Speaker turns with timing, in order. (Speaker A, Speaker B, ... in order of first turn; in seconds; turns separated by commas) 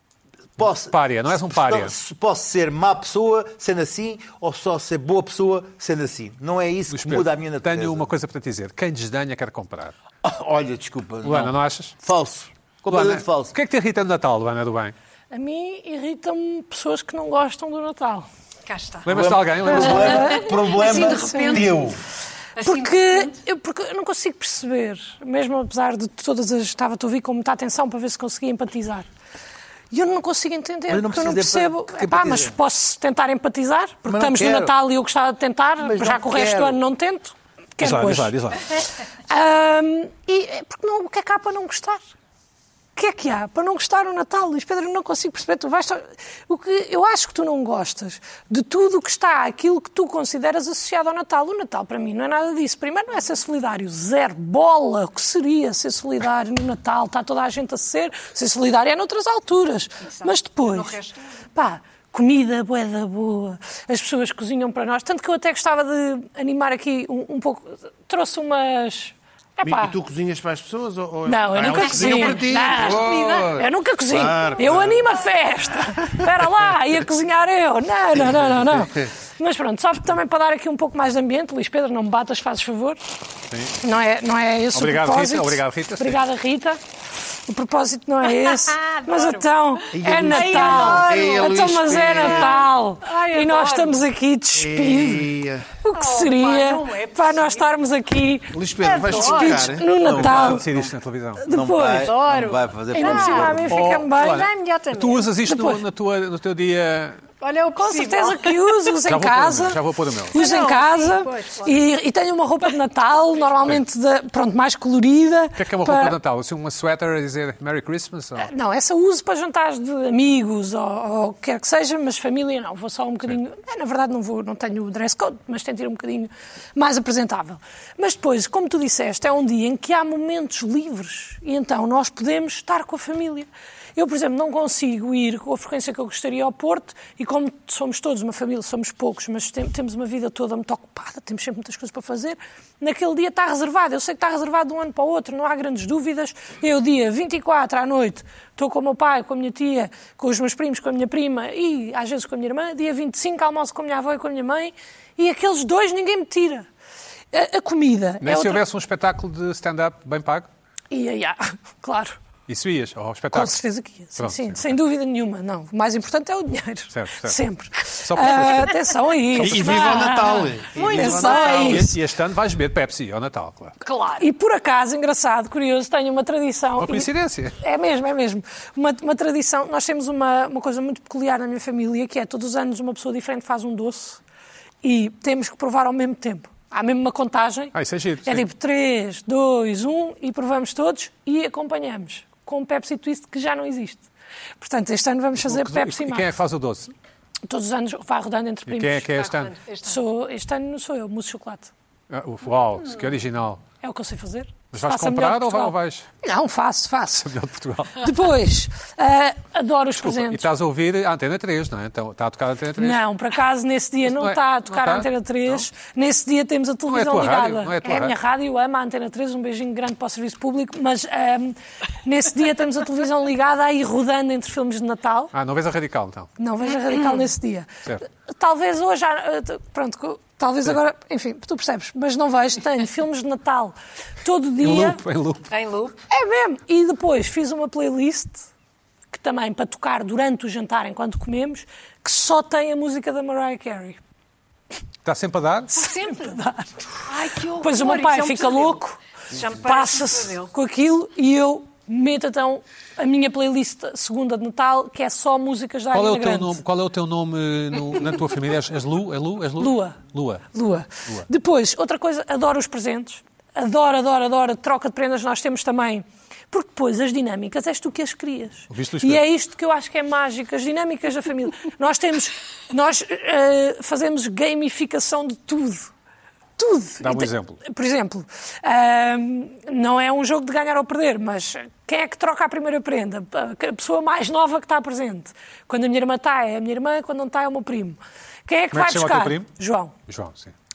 Speaker A: 0.6-8.1, Speaker B: 0.8-1.9, Speaker B: 6.9-9.9, Speaker A: 10.2-13.6, Speaker B: 11.2-11.9, Speaker B: 12.9-14.9, Speaker C: 15.3-18.3, Speaker D: 18.7-19.1, Speaker B: 19.0-20.2, Speaker A: 19.1-22.0, Speaker D: 19.8-21.9, Speaker C: 19.8-21.7, Speaker D: 22.6-23.4, Speaker C: 22.6-29.1, Speaker C: 29.9-38.3, Speaker A: 30.9-32.6, Speaker A: 34.0-34.7, Speaker A: 35.8-36.8, Speaker B: 37.8-38.7, Speaker C: 39.3-42.0, Speaker C: 43.0-61.0, Speaker D: 60.1-61.4, Speaker C: 61.5-70.0, Speaker E: 69.6-75.1, Speaker C: 71.2-83.0, Speaker D: 71.7-73.6, Speaker E: 78.7-79.1, Speaker B: 83.5-83.8, Speaker C: 83.8-86.8, Speaker B: 84.7-86.2, Speaker C: 87.5-100.7, Speaker D: 88.3-89.5, Speaker E: 89.9-92.7, Speaker D: 90.3-94.1, Speaker E: 94.6-95.7, Speaker D: 95.9-97.7, Speaker E: 98.5-99.9, Speaker D: 98.8-99.8, Speaker B: 100.0-101.4, Speaker A: 100.1-100.8, Speaker C: 101.4-102.2, Speaker A: 101.5-103.8, Speaker D: 102.0-105.3, Speaker C: 102.9-104.5, Speaker B: 103.7-107.2, Speaker C: 105.4-105.8, Speaker D: 107.4-108.9, Speaker C: 107.8-116.2, Speaker B: 109.0-110.4, Speaker D: 110.3-111.8, Speaker B: 115.6-118.5, Speaker C: 118.4-156.7, Speaker C: 157.3-158.6, Speaker B: 158.2-160.5, Speaker C: 160.9-162.2, Speaker B: 162.5-163.6, Speaker C: 163.3-171.9, Speaker B: 164.2-164.7, Speaker B: 166.9-167.4, Speaker B: 168.0-168.8, Speaker B: 169.3-170.1, Speaker E: 169.4-172.0, Speaker D: 170.2-171.8, Speaker B: 171.3-173.8, Speaker D: 173.8-174.2, Speaker C: 174.2-184.2, Speaker B: 176.8-177.6, Speaker C: 184.8-194.1, Speaker B: 187.7-188.5, Speaker C: 194.6-196.3, Speaker B: 195.4-196.9, Speaker C: 197.5-199.3, Speaker B: 198.7-199.6, Speaker D: 199.2-200.0, Speaker C: 199.8-201.7, Speaker B: 202.1-203.6, Speaker C: 203.8-207.3, Speaker B: 204.7-206.1, Speaker B: 207.2-208.1, Speaker C: 208.0-210.5, Speaker B: 210.0-213.0, Speaker C: 212.8-225.3, Speaker B: 214.1-215.7, Speaker B: 216.9-218.2, Speaker B: 225.3-226.3, Speaker C: 226.4-235.0, Speaker B: 234.6-235.5, Speaker D: 235.5-236.0, Speaker C: 236.1-238.5, Speaker C: 239.1-244.0, Speaker B: 245.1-245.8, Speaker C: 245.7-247.0, Speaker D: 245.8-246.4, Speaker D: 247.1-250.5, Speaker C: 247.6-256.6, Speaker B: 255.9-260.5, Speaker C: 259.6-260.0, Speaker C: 260.5-275.9, Speaker B: 268.7-269.2, Speaker C: 276.6-289.9, Speaker B: 277.0-277.6, Speaker B: 288.7-289.5, Speaker B: 290.1-290.5